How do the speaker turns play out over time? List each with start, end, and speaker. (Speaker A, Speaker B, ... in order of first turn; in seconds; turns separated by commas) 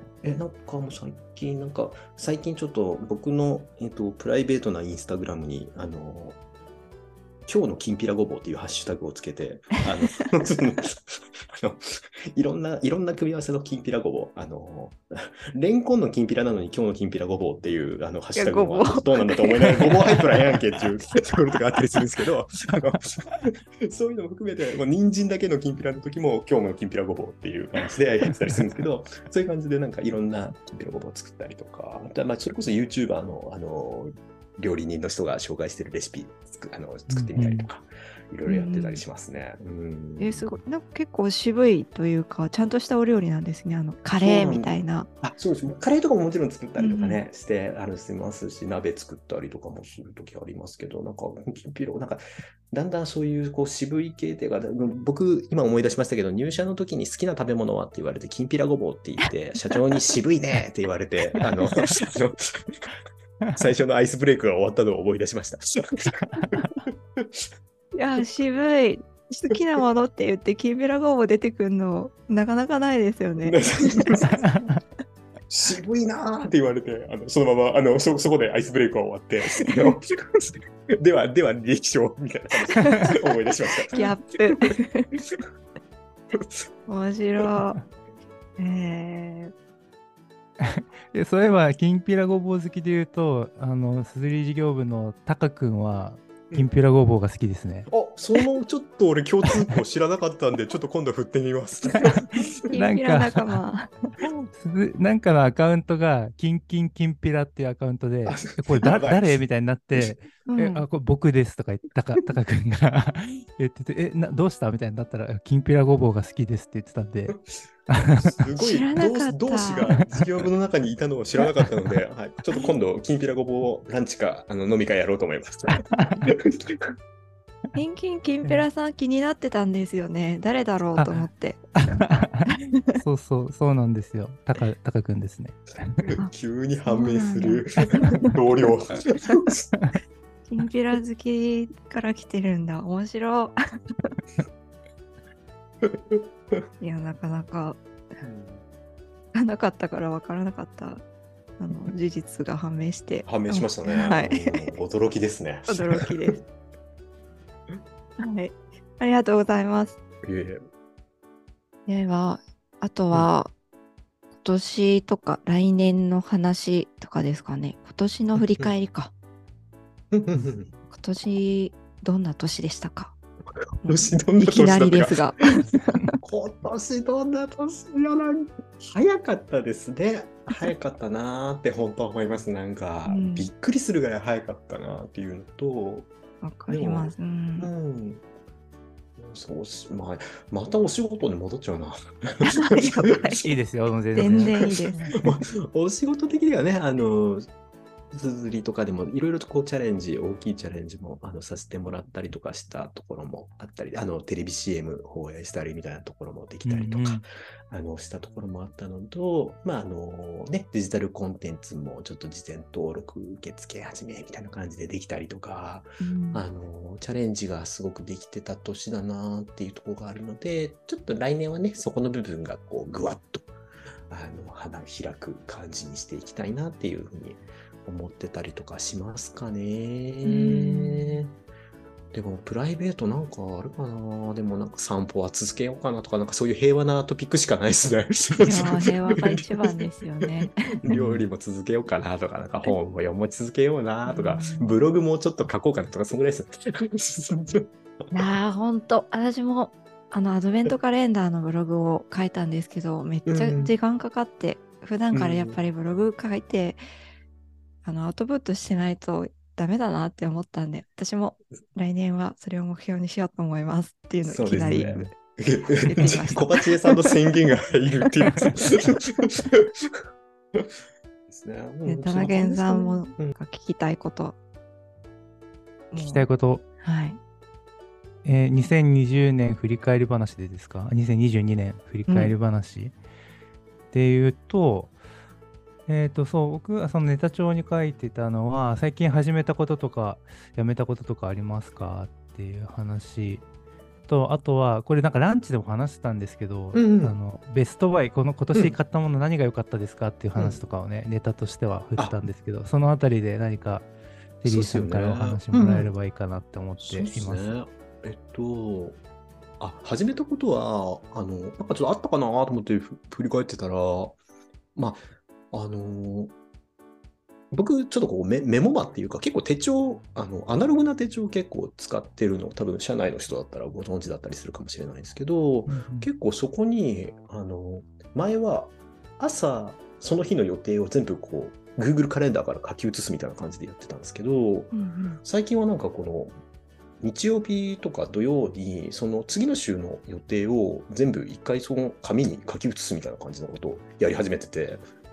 Speaker A: 0.2-6.4, Speaker A: 7.5-40.6, Speaker B: 18.4-20.1, Speaker C: 37.1-37.7, Speaker B: 38.5-39.0, Speaker B: 40.2-45.1, Speaker A: 44.1-62.9, Speaker B: 46.8-47.2, Speaker A: 63.5-67.4, Speaker B: 67.9-74.1, Speaker A: 73.4-74.4, Speaker A: 75.5-84.1, Speaker B: 79.6-79.9, Speaker B: 82.8-83.2, Speaker B: 83.9-85.1, Speaker A: 86.3-86.6, Speaker B: 86.9-87.8, Speaker B: 88.6-89.5, Speaker C: 90.6-97.9, Speaker A: 97.9-102.5, Speaker C: 102.0-103.6, Speaker B: 102.7-103.9, Speaker C: 104.3-117.4, Speaker A: 108.3-109.4, Speaker B: 110.5-110.8, Speaker C: 117.9-118.3, Speaker A: 118.2-126.9, Speaker B: 118.6-120.0, Speaker C: 125.8-126.2, Speaker B: 127.8-133.0, Speaker C: 131.0-131.3, Speaker C: 131.8-132.5, Speaker C: 133.0-136.1, Speaker A: 136.1-139.7, Speaker B: 136.9-138.1, Speaker B: 140.5-144.1, Speaker A: 145.8-146.6, Speaker B: 146.8-147.8, Speaker A: 148.2-148.6, Speaker B: 149.3-151.0, Speaker B: 151.6-154.8, Speaker A: 153.2-156.1, Speaker B: 155.7-156.4, Speaker B: 158.2-160.0, Speaker A: 160.2-160.6, Speaker B: 161.9-163.5, Speaker B: 164.4-169.1, Speaker A: 168.4-168.7, Speaker A: 170.1-170.7, Speaker B: 170.9-173.1, Speaker B: 173.8-176.2, Speaker A: 173.9-175.3, Speaker A: 176.2-186.1, Speaker B: 183.1-183.5, Speaker B: 186.4-187.7, Speaker A: 186.7-188.2, Speaker A: 189.2-193.5, Speaker B: 192.4-193.4, Speaker C: 193.4-195.2, Speaker B: 194.2-195.3, Speaker A: 194.2-197.5, Speaker A: 198.1-223.5, Speaker C: 206.6-207.2, Speaker B: 216.0-216.4, Speaker A: 224.1-231.3, Speaker B: 230.2-231.2, Speaker A: 232.1-247.7, Speaker B: 238.4-240.8, Speaker C: 240.9-241.3, Speaker B: 244.1-244.8, Speaker B: 248.1-256.8, Speaker A: 253.3-253.8, Speaker A: 255.1-255.6, Speaker B: 257.8-265.1, Speaker A: 264.2-270.0, Speaker B: 265.8-267.1, Speaker A: 271.3-273.4, Speaker B: 271.9-274.4, Speaker B: 275.9-276.3, Speaker C: 276.0-276.6, Speaker B: 276.8-277.2, Speaker C: 278.2-283.0, Speaker B: 282.1-282.3, Speaker C: 283.9-285.0, Speaker C: 285.9-293.4, Speaker C: 294.1-303.9, Speaker A: 296.8-297.2, Speaker A: 300.4-300.6, Speaker C: 304.4-307.5, Speaker A: 304.4-305.9, Speaker A: 306.8-309.0, Speaker A: 309.6-314.1, Speaker A: 314.8-316.3, Speaker A: 317.5-336.3, Speaker C: 325.7-326.1, Speaker B: 334.7-335.2, Speaker A: 337.0-344.8